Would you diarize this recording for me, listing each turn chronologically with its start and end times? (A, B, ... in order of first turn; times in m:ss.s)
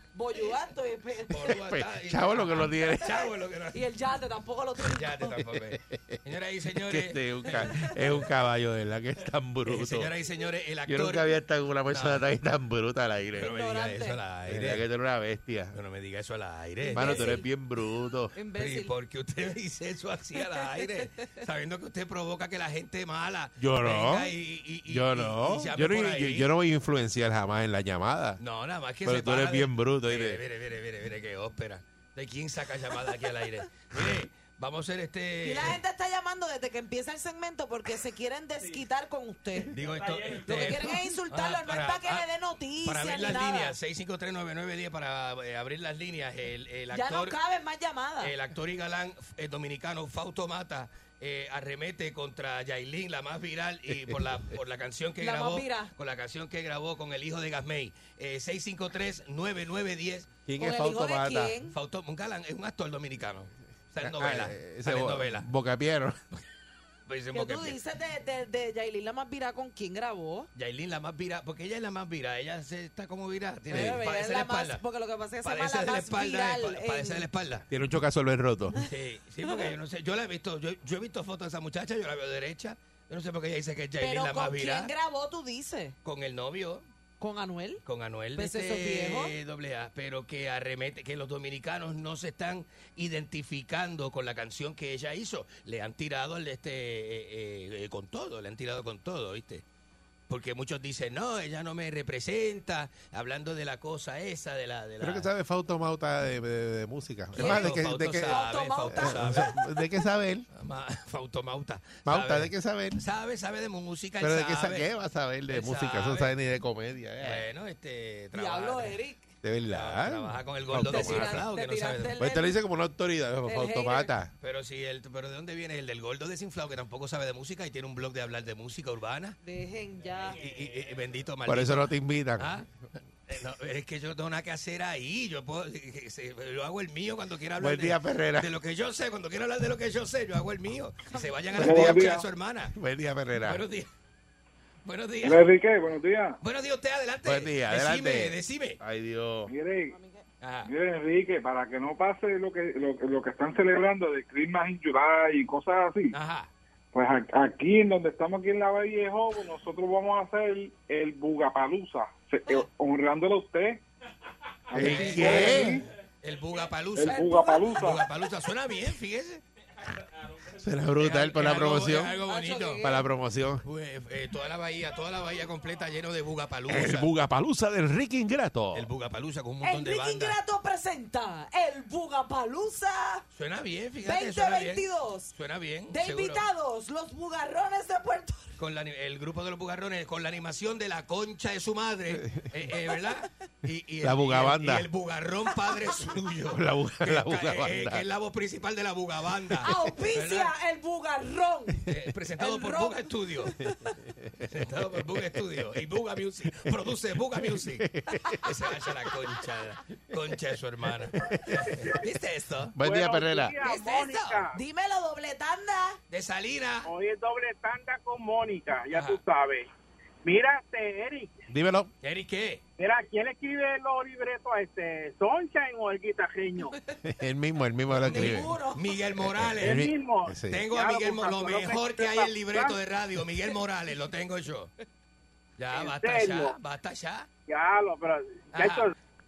0:00.1-0:01.5 A
0:01.3-0:03.8 B
0:01.5-0:03.2 C
0:03.7-0:05.4 A
0:04.8-0:08.2 B
0:05.7-0:06.2 C
0:06.8-0:10.1 C
0:09.6-0:11.3 B
0:10.9-0:13.5 C
0:11.9-0:12.2 B
0:13.3-0:14.8 B
0:13.4-0:14.2 A
0:14.5-0:15.8 C
0:15.7-0:17.4 B
0:16.8-0:17.5 A
0:16.9-0:18.3 C
0:18.3-0:18.9 A
0:18.5-0:26.5 B
0:20.3-0:20.9 A
0:23.6-0:24.3 C
0:24.9-0:28.4 C
0:28.4-0:35.8 B
0:29.0-0:30.4 C
0:35.4-0:39.8 A
0:39.7-0:42.3 B
0:40.4-0:43.7 A
0:42.8-0:47.4 B
0:46.9-0:48.3 A
0:48.2-1:00.3 B
0:55.2-0:55.9 A
1:00.4-1:01.5 C
1:00.6-1:01.8 A
1:01.7-1:05.5 B
1:04.0-1:06.2 C
1:07.1-1:07.8 B
1:07.3-1:10.5 A
1:10.5-1:14.8 B
1:13.7-1:17.2 A
1:13.7-1:14.0 C
1:15.4-1:17.6 B
1:17.7-1:18.8 C
1:18.8-1:24.9 B
1:24.0-1:26.0 A
1:26.0-1:26.8 B
1:27.2-1:27.8 A
1:27.8-1:39.6 B
1:28.3-1:29.3 A
1:40.3-1:45.3 B
1:45.0-1:50.5 C
1:47.3-1:49.6 B
1:47.3-1:49.8 A
1:50.5-1:54.9 B
1:52.0-1:53.0 C
1:54.2-1:57.4 C
1:55.5-1:56.3 B
1:57.2-1:59.0 B
1:58.3-1:59.2 A
1:59.4-2:01.4 C
1:59.7-2:02.2 B
2:00.8-2:02.6 A
2:02.2-2:04.3 C
2:03.4-2:04.1 A
2:04.4-2:09.4 B
2:09.4-2:10.4 A
2:10.4-2:12.7 B
2:11.4-2:12.5 C
2:13.3-2:22.7 B
2:17.6-2:18.5 C
2:21.1-2:21.7 A
2:21.6-2:22.2 D
2:21.6-2:22.2 C
2:22.7-2:23.6 C
2:23.4-2:23.9 B
2:24.8-2:25.5 B
2:25.2-2:26.4 D
2:26.4-2:28.8 B
2:27.2-2:29.5 C
2:29.5-2:29.9 D
2:29.9-2:30.2 A
2:30.4-2:30.7 B
2:30.6-2:36.1 D
2:36.1-2:36.5 B
2:36.9-2:43.8 D
2:44.7-2:45.8 D
2:44.7-2:45.8 C
2:44.8-2:49.4 B
2:46.9-2:48.0 D
2:47.0-2:48.0 A
2:50.6-2:52.2 C
2:51.0-2:52.9 B
2:52.2-2:53.1 A
2:52.8-2:53.6 C
2:53.6-2:57.1 B
2:56.7-2:58.9 C
2:58.7-3:00.4 B
2:59.6-3:03.2 A
3:03.3-3:06.4 B
3:04.0-3:05.3 A
3:05.9-3:08.5 A
3:08.6-3:20.5 B
3:14.0-3:14.9 C
3:16.5-3:18.0 C
3:19.6-3:21.8 A
3:21.9-3:23.5 B
3:22.4-3:23.7 A
3:24.5-3:27.9 B
3:27.7-3:28.4 C
3:28.4-3:32.8 B
3:31.1-3:31.7 C
3:32.8-3:33.6 C
3:32.8-3:34.6 E
3:33.6-3:34.5 B
3:34.5-3:36.0 A
3:36.1-3:36.9 B
3:36.8-3:39.7 E
3:38.9-3:39.2 B
3:40.2-3:41.4 E
3:41.5-3:41.9 C
3:42.0-3:42.6 B
3:42.8-3:46.7 E
3:47.0-3:48.5 C
3:48.0-3:49.8 B
3:48.0-3:48.8 A
3:49.2-3:50.6 C
3:49.6-3:52.8 E
3:50.5-3:54.7 B
3:55.6-3:57.3 B
3:55.7-3:56.5 E
3:57.5-3:58.9 E
3:58.5-3:58.9 B